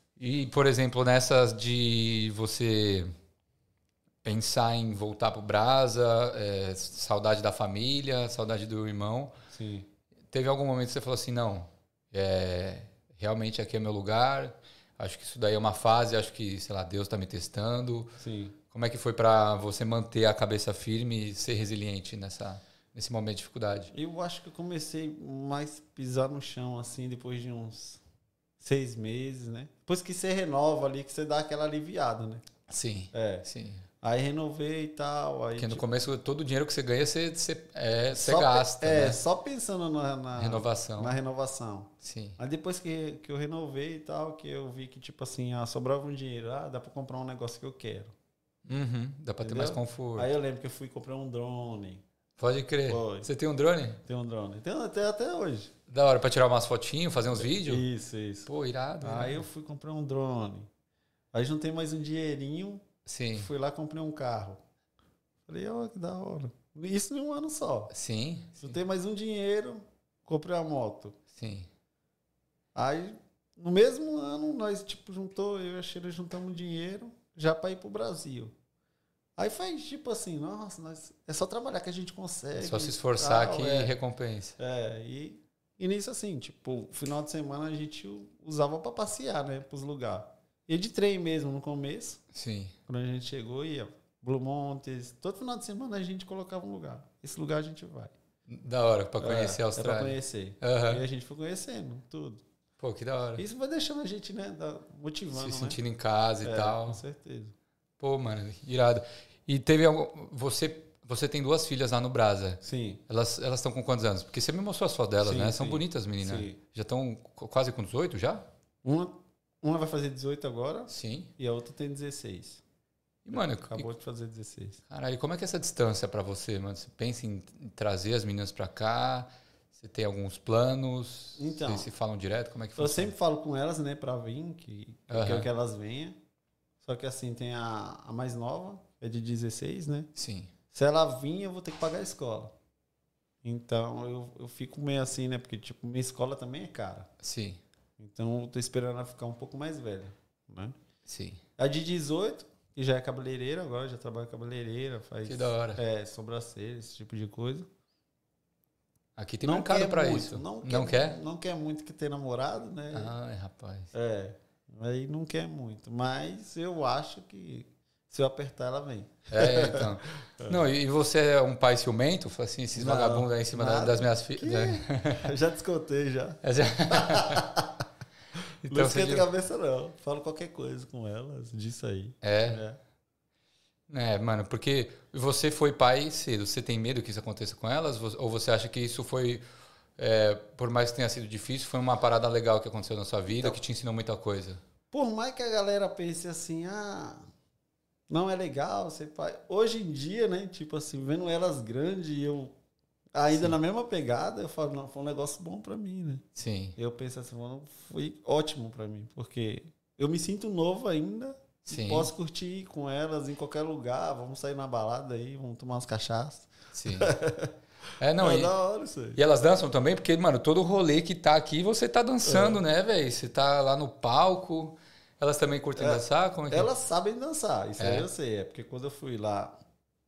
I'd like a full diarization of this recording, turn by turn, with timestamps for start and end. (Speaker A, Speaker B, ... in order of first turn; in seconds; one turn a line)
Speaker A: 0.2-3.1
Speaker A: 4.2-9.3
Speaker B: 9.5-9.9
Speaker A: 10.3-18.1
Speaker B: 18.2-18.6
Speaker A: 18.7-23.9
Speaker B: 23.9-28.0
Speaker B: 28.6-32.4
Speaker A: 32.7-33.9
Speaker B: 33.1-33.5
Speaker B: 34.0-35.8
Speaker A: 35.6-39.2
Speaker B: 38.1-48.1
Speaker A: 40.4-41.1
Speaker A: 42.0-42.4
Speaker A: 48.6-50.3
Speaker B: 49.4-52.0
Speaker A: 52.4-54.0
Speaker B: 52.9-53.3
Speaker B: 54.0-55.7
Speaker A: 55.9-57.9
Speaker B: 57.4-58.5
Speaker A: 58.5-59.4
Speaker B: 59.0-60.7
Speaker B: 61.3-62.8
Speaker A: 63.0-63.5
Speaker B: 63.3-64.6
Speaker B: 65.5-67.9
Speaker A: 67.9-68.8
Speaker B: 68.6-71.2
Speaker A: 71.3-71.7
Speaker B: 72.8-78.5
Speaker B: 79.4-83.9
Speaker A: 82.6-84.6
Speaker B: 84.6-92.2
Speaker A: 92.3-92.8
Speaker B: 92.9-98.1
Speaker A: 98.5-101.0
Speaker B: 99.2-102.4
Speaker A: 102.8-103.4
Speaker B: 103.4-105.8
Speaker A: 105.3-107.0
Speaker B: 106.4-107.5
Speaker A: 108.0-118.5
Speaker B: 112.6-113.0
Speaker B: 115.2-116.6
Speaker B: 118.8-122.6
Speaker A: 120.9-121.3
Speaker A: 123.2-123.9
Speaker B: 123.3-124.8
Speaker A: 124.9-133.1
Speaker B: 131.4-131.9
Speaker B: 132.8-136.2
Speaker A: 135.1-135.5
Speaker B: 136.8-140.1
Speaker A: 140.1-140.5
Speaker B: 140.7-142.5
Speaker B: 143.4-147.1
Speaker A: 147.2-147.6
Speaker B: 148.0-150.8
Speaker A: 151.1-151.4
Speaker B: 151.6-157.7
Speaker A: 155.2-155.8
Speaker A: 159.2-161.2
Speaker B: 159.4-163.1
Speaker A: 162.9-163.9
Speaker B: 163.9-170.6
Speaker A: 169.3-175.3
Speaker B: 172.8-177.8
Speaker A: 176.4-177.5
Speaker A: 178.6-179.3
Speaker B: 178.7-182.8
Speaker A: 182.2-182.6
Speaker A: 183.9-189.4
Speaker A: 190.0-194.6
Speaker B: 194.9-197.2
Speaker B: 198.1-202.5
Speaker B: 203.1-206.2
Speaker A: 206.3-206.8
Speaker B: 206.8-217.6
Speaker A: 211.7-212.1
Speaker A: 216.7-217.1
Speaker A: 218.0-218.5
Speaker B: 218.2-219.2
Speaker A: 219.2-226.7
Speaker B: 222.2-222.6
Speaker B: 225.8-229.6
Speaker A: 227.8-228.1